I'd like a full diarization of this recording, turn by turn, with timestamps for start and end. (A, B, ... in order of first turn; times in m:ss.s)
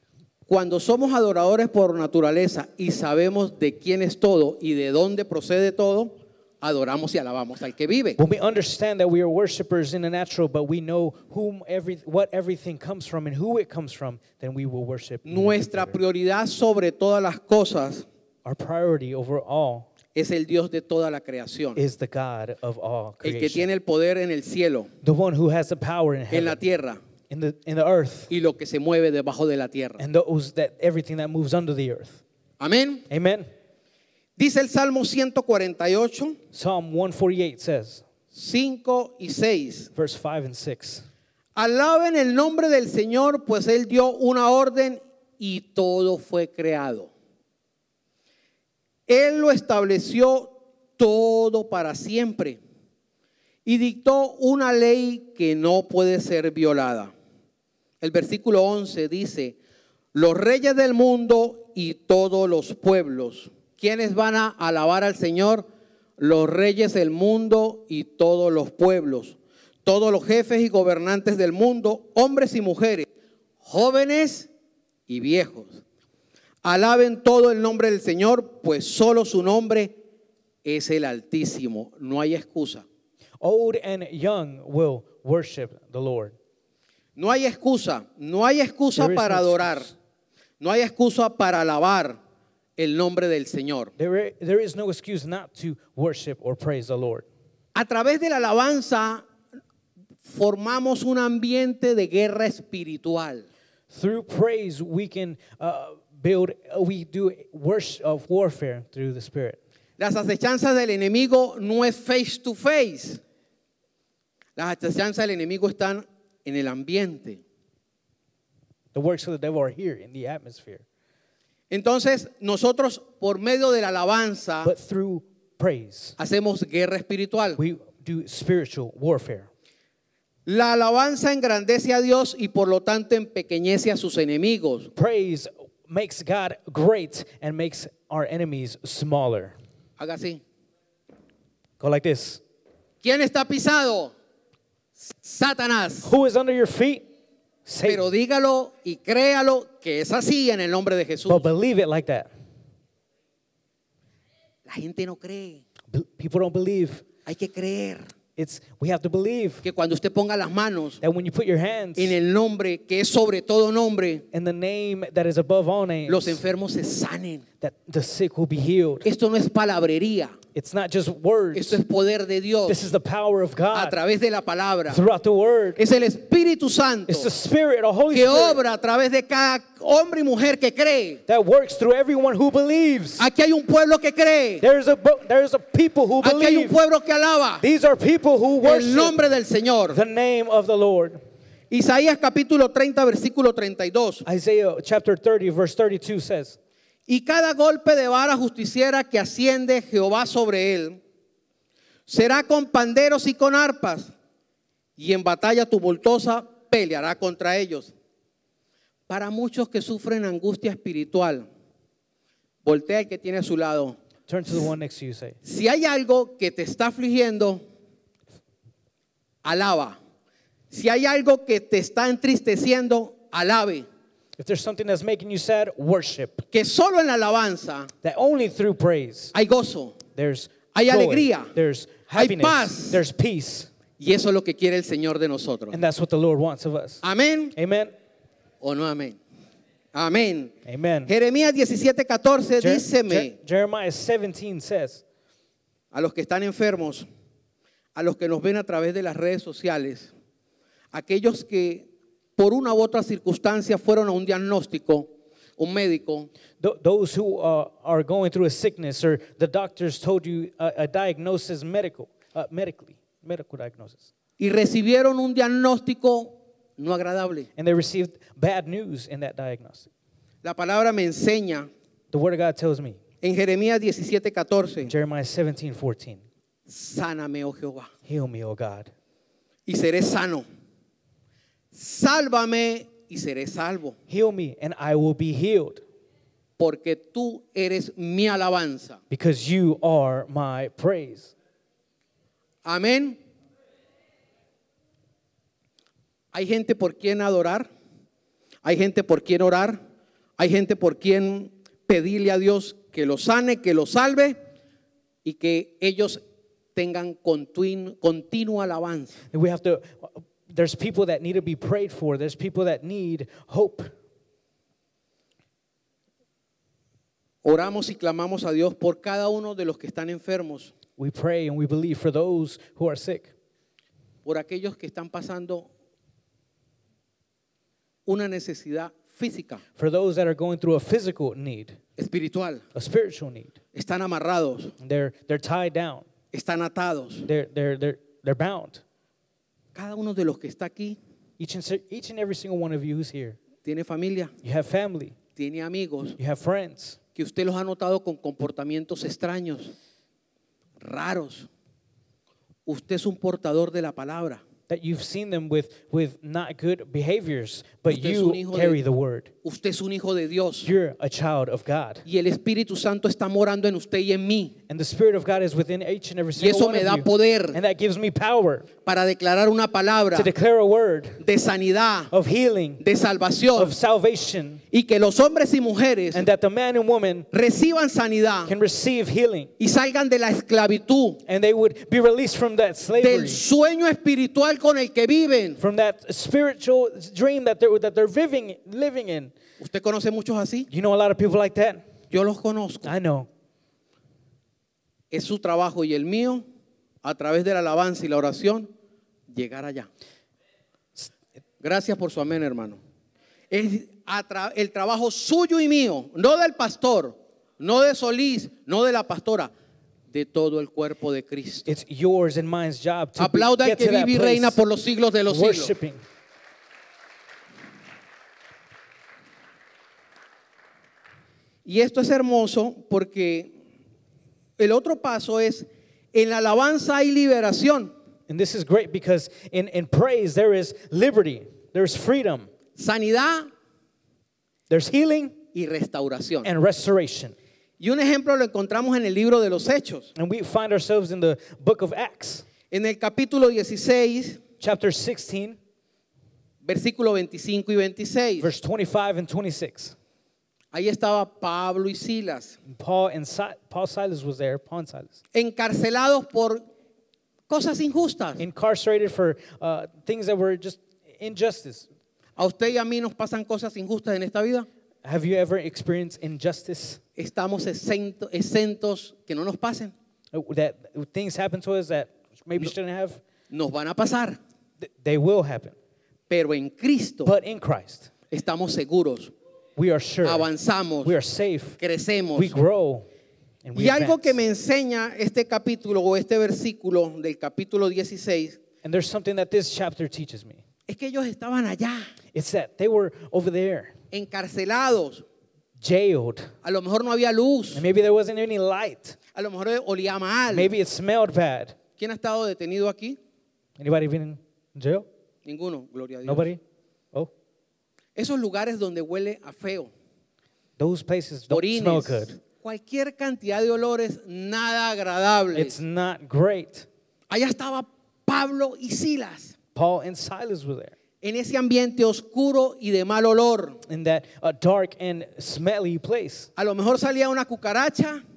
0:00.5-0:08.2 A
0:08.2-0:16.0 B
0:15.2-0:18.0 A
0:18.4-0:19.9 B
0:20.1-0:21.8 A
0:21.8-0:23.7 B
0:23.2-0:24.9 A
0:25.0-0:26.6 B
0:26.3-0:27.0 A
0:27.3-0:28.3 B
0:28.3-0:30.0 A
0:30.0-0:32.2 B
0:32.6-0:33.0 A
0:33.1-0:33.5 B
0:34.4-0:36.4 A
0:36.5-0:38.0 B
0:38.3-0:39.9 A
0:39.9-0:41.0 B
0:41.6-0:47.1 A
0:49.1-0:52.6 A
0:53.6-0:57.1 A
0:58.0-0:59.6 A
1:00.1-1:05.7 A
1:06.2-1:13.1 A
1:13.6-1:14.5 A
1:15.1-1:15.8 A
1:16.6-1:20.0 A
1:20.6-1:22.8 A
1:23.4-1:26.3 B
1:27.2-1:29.9 A
1:29.0-1:29.9 B
1:30.6-1:32.2 A
1:32.8-1:33.9 A
1:34.0-1:37.2 B
1:37.7-1:39.2 A
1:40.2-1:43.4 A
1:43.9-1:49.6 B
1:50.0-1:53.2 A
1:54.6-1:57.4 A
1:58.9-2:00.8 B
2:01.7-2:04.7 A
2:04.6-2:06.2 B
2:06.2-2:07.6 A
2:07.6-2:09.5 B
2:10.4-2:14.9 A
2:15.0-2:19.6 B
2:20.0-2:20.4 A
2:21.8-2:22.4 B
2:23.0-2:24.1 A
2:25.0-2:26.1 A
2:26.0-2:27.1 B
2:27.6-2:28.1 B
2:27.8-2:31.5 A
2:31.3-2:32.3 B
2:34.6-2:35.6 A
2:35.9-2:37.0 B
2:37.2-2:38.1 A
2:38.4-2:39.6 B
2:39.6-2:41.0 A
2:41.0-2:42.1 B
2:42.0-2:44.2 A
2:44.3-2:46.4 B
2:46.1-2:47.4 A
2:47.6-2:49.0 B
2:49.0-2:50.4 A
2:50.5-2:51.8 B
2:51.5-2:52.8 A
2:52.7-2:54.0 B
2:53.7-2:55.0 A
2:54.9-2:55.8 B
2:55.8-2:57.3 A
2:57.1-2:58.6 B
2:58.1-3:01.2 A
3:01.3-3:03.2 B
3:03.2-3:04.6 A
3:04.6-3:06.7 B
3:06.2-3:07.6 A
3:07.6-3:09.2 B
3:08.6-3:10.0 A
3:09.9-3:11.2 B
3:11.7-3:14.2 A
3:14.2-3:16.6 B
3:17.1-3:21.0 A
3:22.1-3:24.1 A
3:25.0-3:27.9 A
3:29.1-3:31.5 A
3:32.6-3:34.0 A
3:34.3-3:35.4 B
3:35.4-3:37.6 A
3:39.4-3:40.0 A
3:40.7-3:43.9 A
3:44.4-3:46.4 B
3:46.5-3:47.9 A
3:48.0-3:49.3 B
3:49.3-3:50.0 A
3:50.2-3:53.7 B
3:50.7-3:51.5 A
3:52.1-3:53.0 A
3:54.0-3:55.8 A
3:55.7-3:57.0 B
3:57.0-3:57.5 A
3:57.5-3:57.9 B
3:58.6-3:59.2 A
3:59.9-4:00.5 A
4:00.6-4:01.1 B
4:01.1-4:03.4 A
4:02.6-4:05.0 B
4:05.9-4:07.0 A
4:07.9-4:10.1 A
4:10.9-4:16.3 A
4:16.6-4:24.0 B
4:24.4-4:27.5 A
4:27.6-4:29.9 B
4:30.4-4:31.7 A
4:32.1-4:33.0 B
4:33.2-4:34.9 A
4:34.8-4:36.2 B
4:36.7-4:37.9 A
4:38.1-4:38.9 B
4:39.7-4:40.4 A
4:41.7-4:44.0 A
4:44.1-4:45.8 B
4:46.6-4:49.0 A
4:49.1-4:51.3 B
4:52.6-4:53.2 A
4:56.3-4:57.7 A
4:58.6-4:59.8 A
5:00.4-5:04.4 A
5:05.2-5:06.2 A
5:06.7-5:09.2 A
5:09.3-5:13.9 B
5:17.4-5:20.7 A
5:21.0-5:23.3 B
5:24.2-5:25.7 A
5:28.0-5:29.6 A
5:29.8-5:31.8 B
5:32.0-5:32.6 A
5:32.7-5:33.5 B
5:33.7-5:34.7 A
5:34.8-5:36.0 B
5:36.3-5:37.3 A
5:37.2-5:38.8 B
5:39.7-5:41.0 A
5:41.4-5:43.4 B
5:43.6-5:44.3 A
5:44.4-5:45.2 B
5:45.4-5:46.2 A
5:46.2-5:47.0 B
5:47.1-5:49.7 A
5:50.8-5:51.5 A
5:52.6-5:54.4 A
5:54.7-5:59.3 B
5:57.9-5:58.8 A
5:59.4-6:00.7 A
6:00.6-6:02.0 B
6:02.0-6:04.5 A
6:04.7-6:08.7 B
6:06.4-6:07.6 A
6:08.8-6:10.3 A
6:10.1-6:11.2 B
6:11.2-6:12.1 A
6:12.1-6:12.8 B
6:12.8-6:13.7 A
6:13.5-6:14.6 B
6:14.7-6:16.2 A
6:16.1-6:17.3 B
6:17.3-6:18.5 A
6:18.4-6:19.5 B
6:19.6-6:21.2 A
6:21.2-6:23.4 B
6:23.0-6:25.6 A
6:25.6-6:29.3 B
6:29.6-6:30.7 A
6:30.7-6:31.8 B
6:32.1-6:32.9 A
6:32.8-6:33.3 B
6:35.1-6:36.4 A
6:37.0-6:38.7 A
6:39.3-6:39.9 A
6:41.6-6:42.8 A
6:43.5-6:49.5 A
6:50.1-6:51.7 A
6:51.7-6:54.6 B
6:53.2-6:55.7 A
6:55.3-6:56.0 B
7:01.6-7:03.5 A
7:04.6-7:07.9 A
7:08.3-7:12.5 B
7:12.8-7:13.5 A
7:14.7-7:15.4 B
7:15.5-7:16.5 A
7:16.4-7:17.3 B
7:17.8-7:20.1 A
7:20.2-7:22.4 B
7:22.7-7:24.4 A
7:24.6-7:25.6 B
7:26.6-7:28.5 A
7:28.4-7:29.9 B
7:30.7-7:32.6 A
7:32.7-7:35.1 B
7:35.3-7:36.6 A
7:37.5-7:38.4 A
7:38.4-7:41.8 B
7:42.4-7:44.7 A
7:45.0-7:47.0 B
7:47.2-7:49.9 A
7:50.3-7:53.2 B
7:53.5-7:54.4 A
7:54.8-7:55.7 B
7:56.3-7:57.3 A
7:57.2-7:58.1 B
7:58.3-7:59.3 A
7:59.8-8:00.5 B
8:00.2-8:01.1 A
8:01.0-8:01.8 B
8:01.8-8:02.5 A
8:02.3-8:03.0 B
8:03.6-8:04.4 B
8:03.7-8:08.6 A
8:08.8-8:10.6 B
8:10.9-8:12.1 A
8:12.3-8:13.9 B
8:14.1-8:15.2 A
8:15.8-8:16.5 B
8:16.6-8:17.8 A
8:17.7-8:19.2 B
8:19.3-8:20.7 A
8:20.5-8:21.8 B
8:22.0-8:23.2 A
8:23.8-8:25.1 B
8:25.4-8:26.5 A
8:26.2-8:26.6 B
8:28.2-8:29.9 A
8:30.8-8:32.3 B
8:31.5-8:35.7 A
8:35.5-8:36.9 B
8:37.3-8:39.5 A
8:39.7-8:40.9 B
8:41.2-8:43.8 A
8:43.9-8:46.5 B
8:46.6-8:48.2 A